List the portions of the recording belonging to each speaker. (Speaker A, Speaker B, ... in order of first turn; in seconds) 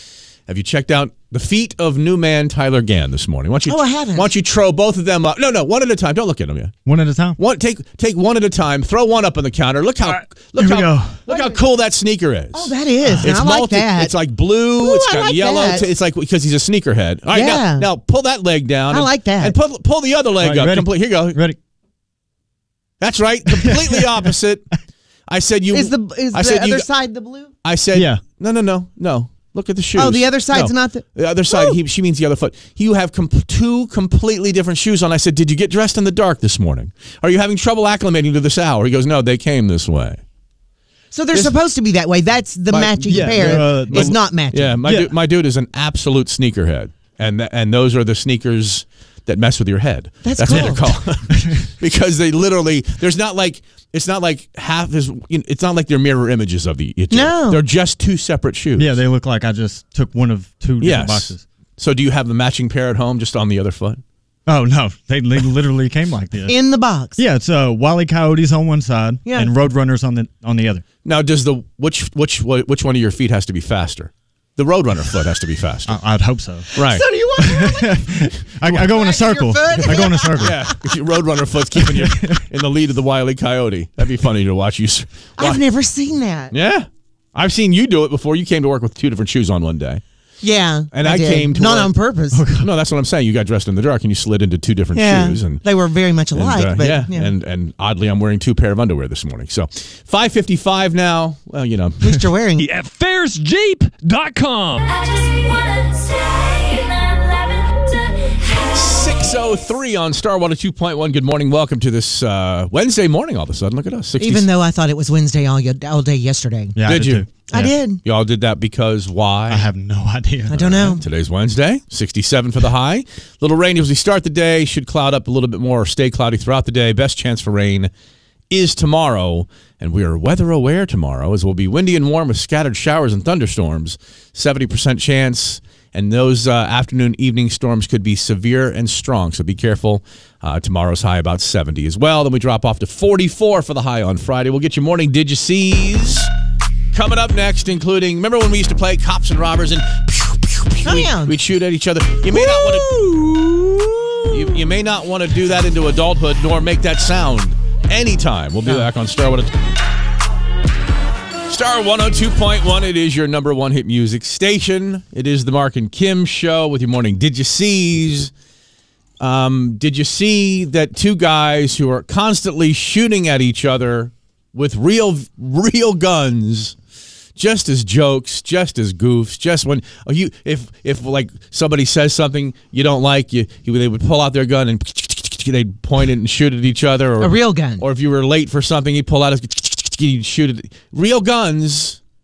Speaker A: 0.5-6.7, 7.4-21.4, 23.0-24.7, 25.3-26.9, 27.6-40.2, 42.7-59.0, 60.8-64.0, 71.0-76.0, 76.8-77.0, 80.4-85.6, 86.5-90.0, 90.9-91.9, 92.6-95.6, 96.3-102.0, 108.7-114.5, 116.9-117.3, 118.0-119.7, 121.0-127.9, 128.5-146.3, 146.9-152.9, 154.3-159.5, 161.5-168.3, 169.2-176.7, 177.4-192.0
Speaker B: 3.7-4.3, 11.3-11.6, 12.5-14.1, 14.8-15.9, 17.3-17.9, 18.9-19.6, 25.7-27.5, 29.9-31.7, 41.1-44.7, 50.2-51.0, 57.1-57.6, 66.5-67.2, 69.2-69.5, 76.8-78.1, 78.7-80.7, 85.4-86.5, 90.4-92.4, 94.9-97.3, 102.0-102.7, 114.2-116.8, 117.5-118.0, 120.5-121.0, 150.8-151.3, 152.3-154.6, 187.2-187.8
Speaker C: 6.8-7.4, 10.1-11.2, 20.4-21.6, 27.9-28.2, 43.0-44.1, 44.8-45.1, 58.8-61.4, 64.5-66.5, 67.2-70.8, 75.8-76.7, 77.4-80.6, 82.0-82.4, 92.3-92.7, 116.8-117.7, 119.5-121.0
Speaker D: 102.6-104.8
Speaker E: 104.8-109.3